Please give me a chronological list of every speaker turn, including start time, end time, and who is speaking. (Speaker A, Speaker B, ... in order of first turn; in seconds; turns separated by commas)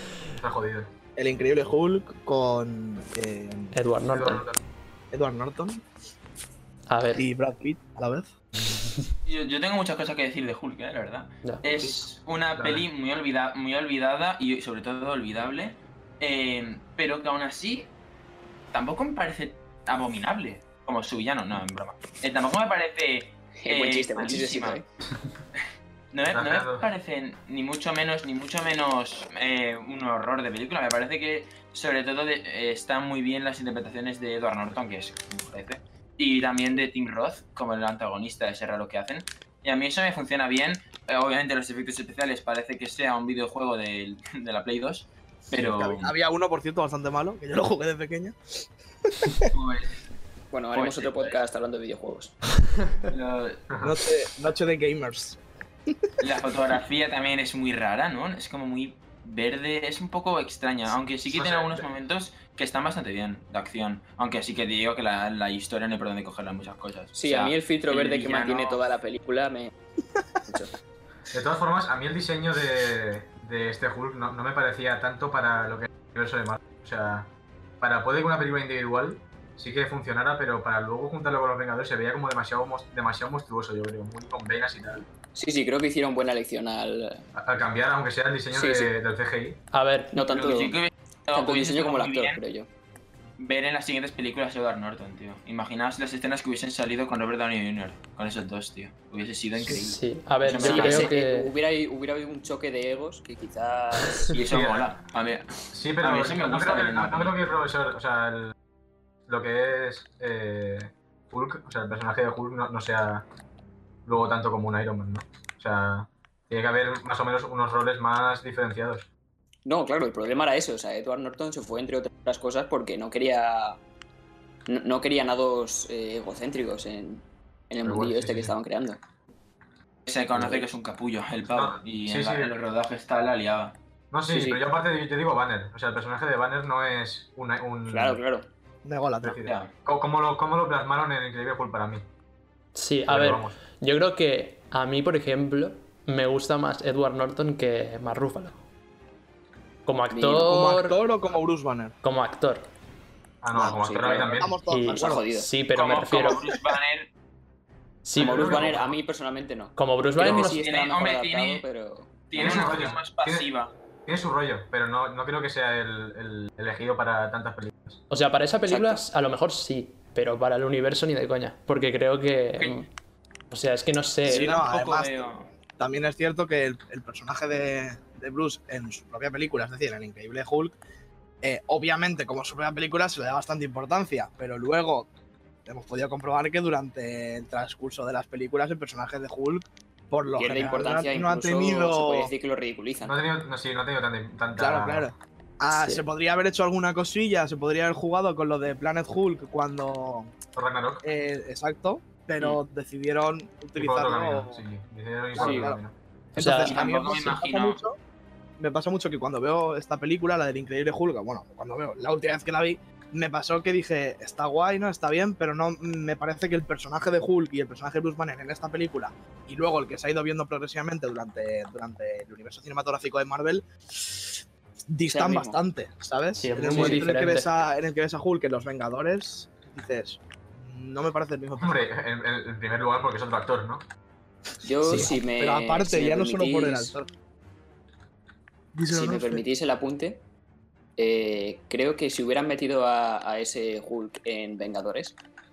Speaker A: 0.4-0.9, Speaker B: 1.2-3.7, Speaker C: 3.7-4.5, Speaker A: 4.1-4.6, Speaker B: 5.1-5.8, Speaker C: 6.9-7.2, Speaker B: 7.2-8.3, Speaker D: 9.2-17.9, Speaker A: 12.6-12.9, Speaker D: 18.7-24.8, Speaker E: 23.6-24.9, Speaker D: 26.1-46.1, Speaker A: 26.3-26.9, Speaker B: 45.6-49.5, Speaker D: 49.5-50.0, Speaker E: 50.5-52.4, Speaker D: 50.7-51.4, Speaker D: 53.1-53.6, Speaker B: 53.8-55.9, Speaker D: 56.2-68.8, Speaker A: 61.3-61.9, Speaker E: 67.1-69.7, Speaker A: 71.3-85.1, Speaker E: 85.3-87.2, Speaker A: 87.3-89.6, Speaker E: 88.5-88.9, Speaker C: 89.7-90.2, Speaker E: 90.1-90.8, Speaker D: 90.2-92.4, Speaker E: 91.3-92.7, Speaker D: 93.4-101.1, Speaker C: 99.7-101.5, Speaker E: 100.6-104.4, Speaker D: 104.3-107.4, Speaker A: 104.5-104.9, Speaker A: 105.7-108.5, Speaker A: 109.3-113.2, Speaker A: 114.0-119.1, Speaker E: 119.7-123.8, Speaker E: 124.7-129.0, Speaker A: 127.8-128.5, Speaker D: 130.1-133.8, Speaker E: 130.3-130.7, Speaker A: 131.5-132.5, Speaker A: 134.1-138.2, Speaker E: 134.3-134.6, Speaker E: 137.9-138.5, Speaker B: 138.8-139.4, Speaker A: 139.2-142.1, Speaker D: 139.4-139.7, Speaker C: 142.8-148.6, Speaker A: 143.1-143.6, Speaker C: 149.9-151.0, Speaker E: 150.1-150.5, Speaker B: 150.5-152.0, Speaker C: 152.0-152.7, Speaker A: 153.4-154.6, Speaker E: 153.5-155.5, Speaker B: 154.1-155.2, Speaker C: 154.7-156.5, Speaker D: 155.7-157.1, Speaker C: 158.0-158.8, Speaker A: 158.2-159.0, Speaker E: 158.2-162.6, Speaker C: 159.8-160.6, Speaker D: 160.2-161.6, Speaker D: 162.3-163.7, Speaker A: 162.4-163.5, Speaker A: 164.1-168.0, Speaker C: 168.1-172.9, Speaker E: 168.7-169.0, Speaker C: 173.5-174.6, Speaker B: 174.2-175.2, Speaker D: 174.2-175.5, Speaker B: 175.8-180.8, Speaker B: 181.4-185.1, Speaker B: 185.7-192.3, Speaker E: 190.4-193.2, Speaker A: 193.0-195.1, Speaker B: 194.6-200.4, Speaker A: 200.6-201.0, Speaker B: 201.0-204.6, Speaker A: 203.8-206.0, Speaker B: 205.3-205.8, Speaker E: 205.4-205.7, Speaker B: 206.3-208.0, Speaker C: 206.4-206.8, Speaker D: 206.6-207.8, Speaker B: 208.6-231.9, Speaker E: 225.1-225.6, Speaker C: 226.3-227.5, Speaker E: 226.7-227.0, Speaker A: 231.6-233.8, Speaker E: 234.6-236.9, Speaker B: 234.8-237.1, Speaker A: 234.9-235.1, Speaker B: 238.7-239.4, Speaker E: 238.9-240.2, Speaker E: 241.0-245.2